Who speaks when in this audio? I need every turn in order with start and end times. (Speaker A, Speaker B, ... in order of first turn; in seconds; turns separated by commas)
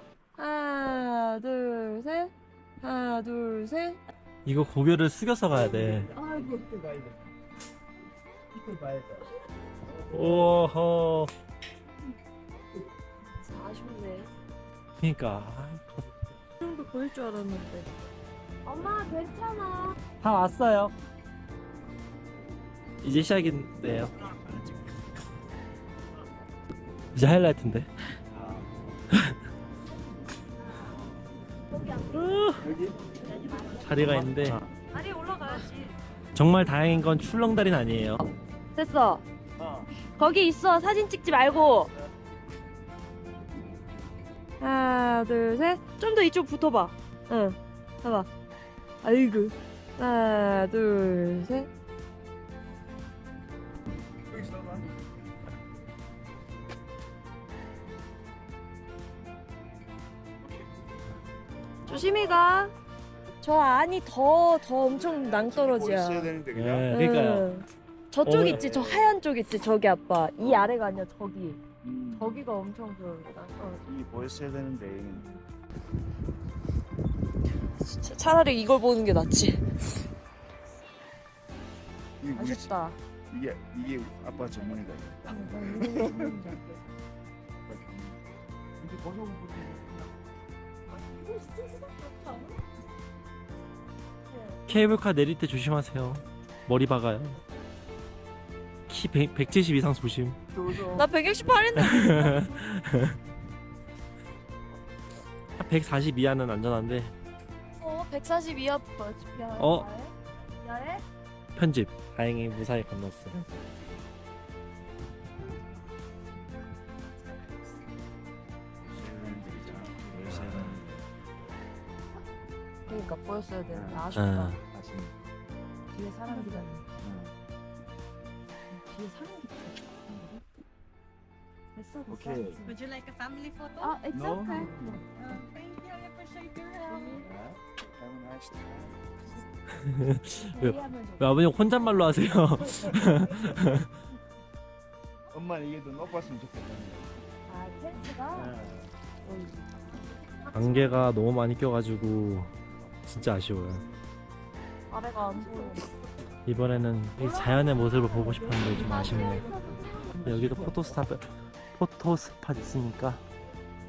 Speaker A: 0.3-4.0, Speaker B: 4.4-6.1, Speaker A: 6.2-6.6, Speaker C: 6.2-7.1, Speaker B: 10.1-11.3, Speaker A: 13.4-14.3, Speaker B: 15.0-16.1, Speaker A: 16.6-17.9, Speaker A: 18.6-20.0, Speaker B: 20.2-20.9, Speaker B: 23.0-24.1, Speaker B: 27.1-27.9, Speaker A: 31.7-32.2, Speaker B: 32.1-32.7, Speaker C: 32.6-33.0, Speaker A: 33.3-34.2, Speaker B: 33.8-34.6, Speaker A: 34.9-36.0, Speaker B: 36.3-38.2, Speaker A: 38.7-39.2, Speaker C: 39.6-39.9, Speaker A: 40.2-41.9, Speaker A: 44.6-48.3, Speaker A: 49.0-51.7, Speaker C: 54.3-54.9, Speaker A: 61.9-62.7, Speaker A: 63.4-66.3, Speaker C: 65.0-66.9, Speaker B: 66.5-67.5, Speaker A: 66.9-71.6, Speaker B: 68.2-69.2, Speaker C: 70.4-70.7, Speaker C: 71.8-72.5, Speaker A: 72.1-73.8, Speaker C: 73.8-75.3, Speaker A: 75.1-75.4, Speaker A: 77.8-79.6, Speaker C: 82.2-82.8, Speaker A: 82.3-83.0, Speaker C: 83.3-86.6, Speaker A: 85.3-86.6, Speaker C: 87.6-88.2, Speaker C: 88.8-90.1, Speaker A: 91.0-92.5, Speaker A: 94.3-94.6, Speaker B: 94.7-97.4, Speaker B: 98.9-100.4, Speaker A: 100.8-102.5, Speaker B: 101.7-103.2, Speaker B: 105.6-107.1, Speaker A: 107.8-111.0, Speaker B: 109.6-109.9, Speaker B: 111.5-113.5, Speaker C: 118.8-121.0, Speaker A: 122.9-124.5, Speaker C: 123.7-124.1, Speaker B: 124.1-124.6, Speaker C: 124.7-125.1, Speaker A: 125.9-126.8, Speaker D: 126.2-126.8, Speaker C: 127.0-127.3, Speaker A: 128.7-130.4, Speaker A: 131.7-132.8, Speaker C: 132.1-132.6, Speaker D: 132.7-134.0, Speaker A: 133.8-135.0, Speaker C: 134.1-134.9, Speaker D: 135.2-137.1, Speaker A: 136.7-137.2, Speaker C: 137.2-139.2, Speaker B: 139.8-143.9, Speaker A: 140.4-141.3, Speaker C: 145.3-147.2, Speaker A: 147.5-148.5, Speaker C: 148.4-148.8, Speaker B: 150.5-152.5, Speaker B: 153.1-153.8, Speaker A: 154.9-155.8, Speaker B: 156.4-159.5, Speaker A: 157.2-160.2, Speaker B: 160.2-163.2